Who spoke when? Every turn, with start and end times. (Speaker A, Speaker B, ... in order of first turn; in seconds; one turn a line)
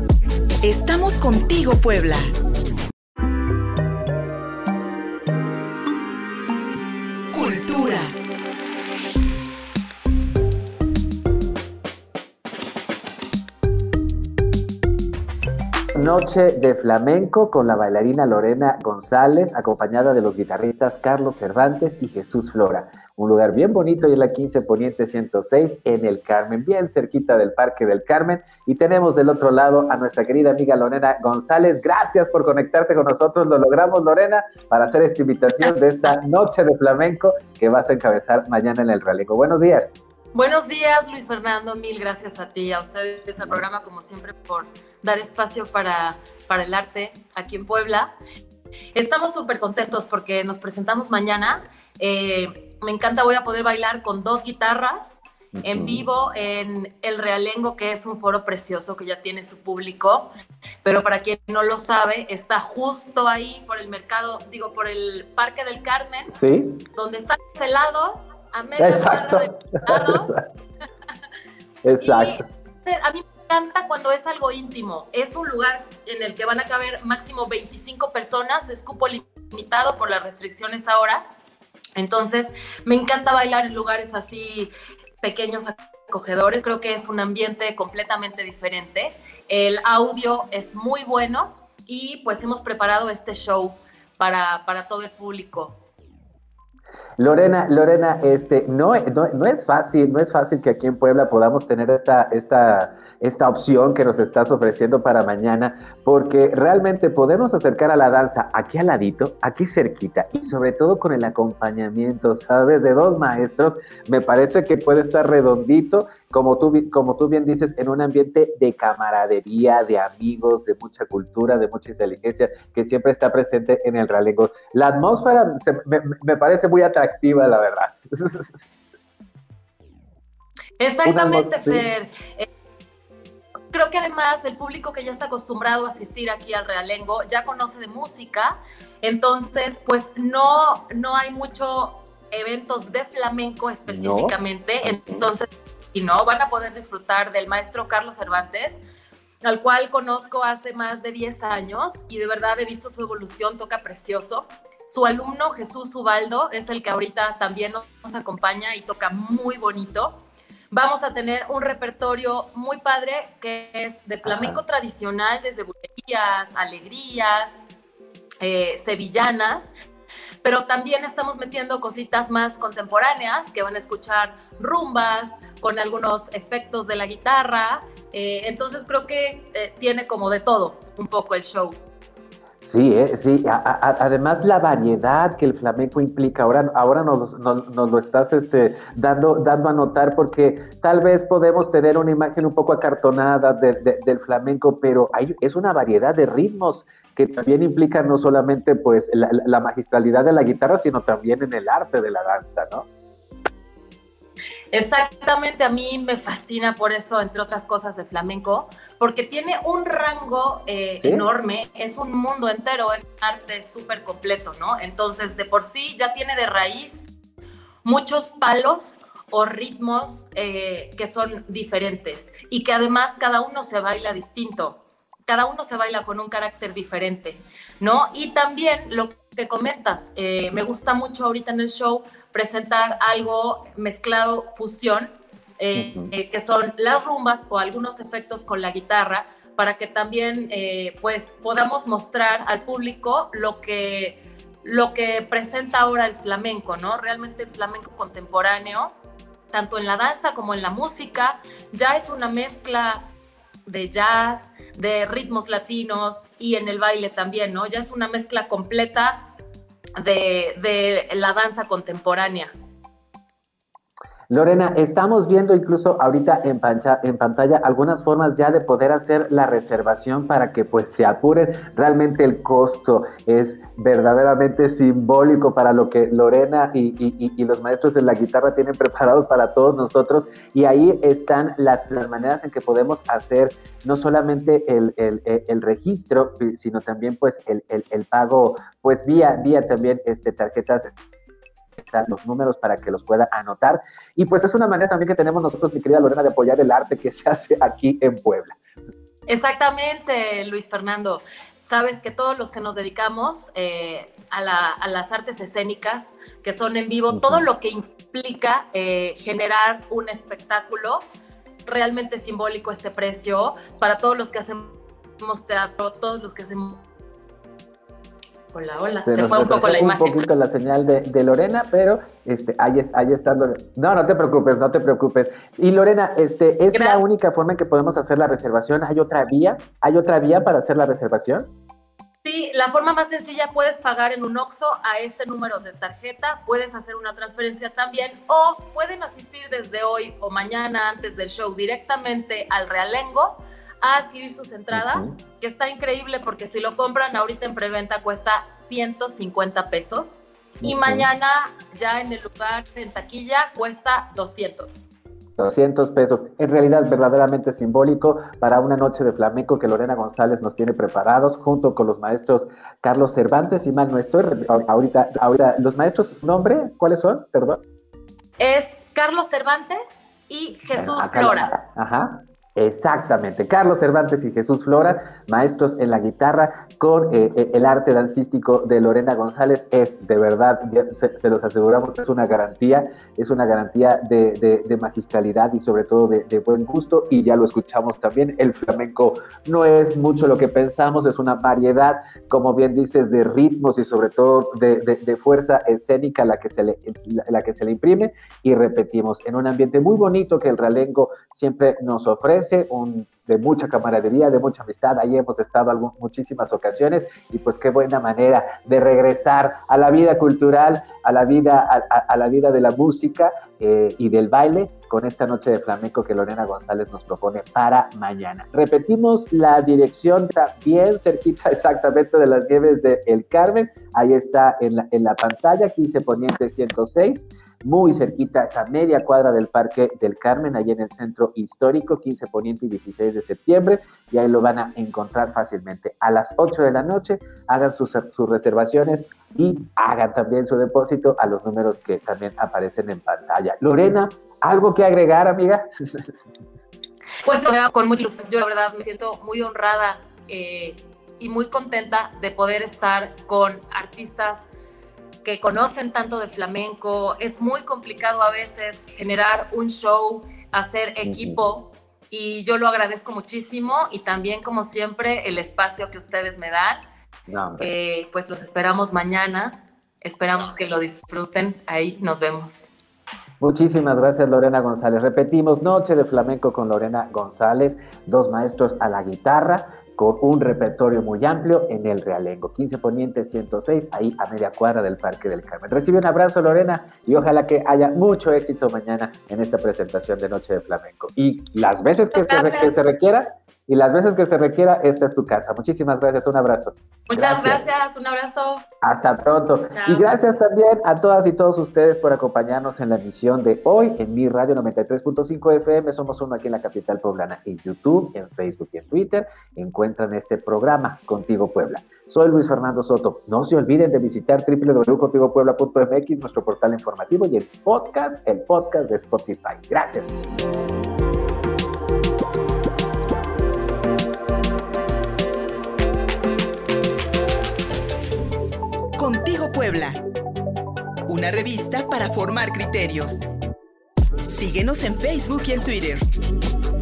Speaker A: 0.6-2.3
Speaker A: 7.3-8.1
Speaker B: 15.9-40.0
Speaker C: 35.6-36.1
Speaker C: 40.3-48.2
Speaker C: 48.9-60.3
Speaker B: 55.5-56.1
Speaker C: 60.8-66.3
Speaker B: 66.3-66.8
Speaker C: 66.9-70.4
Speaker B: 68.8-70.4
Speaker B: 71.8-72.4
Speaker C: 72.0-81.2
Speaker C: 82.0-95.8
Speaker B: 97.2-128.6
Speaker C: 130.8-132.5
Speaker B: 131.0-131.8
Speaker C: 133.7-148.8
Speaker B: 143.9-145.3
Speaker C: 149.4-167.7
Speaker B: 164.2-164.6
Speaker C: 168.4-169.7
Speaker C: 170.4-181.8
Speaker B: 182.6-202.9
Speaker C: 204.7-217.1
Speaker B: 210.9-211.3
Speaker C: 217.8-248.9
Speaker B: 235.8-236.1
Speaker C: 249.5-253.1
Speaker C: 253.7-259.3
Speaker C: 260.0-262.5
Speaker B: 264.3-290.9
Speaker B: 291.8-298.6
Speaker C: 299.3-311.1
Speaker B: 307.1-307.5
Speaker C: 311.6-316.8
Speaker C: 318.5-320.2
Speaker B: 319.0-331.5
Speaker C: 326.7-327.0
Speaker C: 332.2-354.8
Speaker B: 344.7-345.1
Speaker B: 350.6-351.1
Speaker B: 355.4-367.6
Speaker C: 368.4-371.6
Speaker B: 370.7-446.1
Speaker C: 447.2-454.5
Speaker C: 455.2-466.8
Speaker B: 461.0-461.4
Speaker B: 467.3-467.7
Speaker C: 467.6-472.7
Speaker B: 473.4-497.6
Speaker C: 492.1-492.7
Speaker C: 497.1-498.6
Speaker B: 498.8-520.1
Speaker C: 499.7-500.1
Speaker A: 529.0-530.0
Speaker A: 531.1-533.2
Speaker A: 534.3-536.0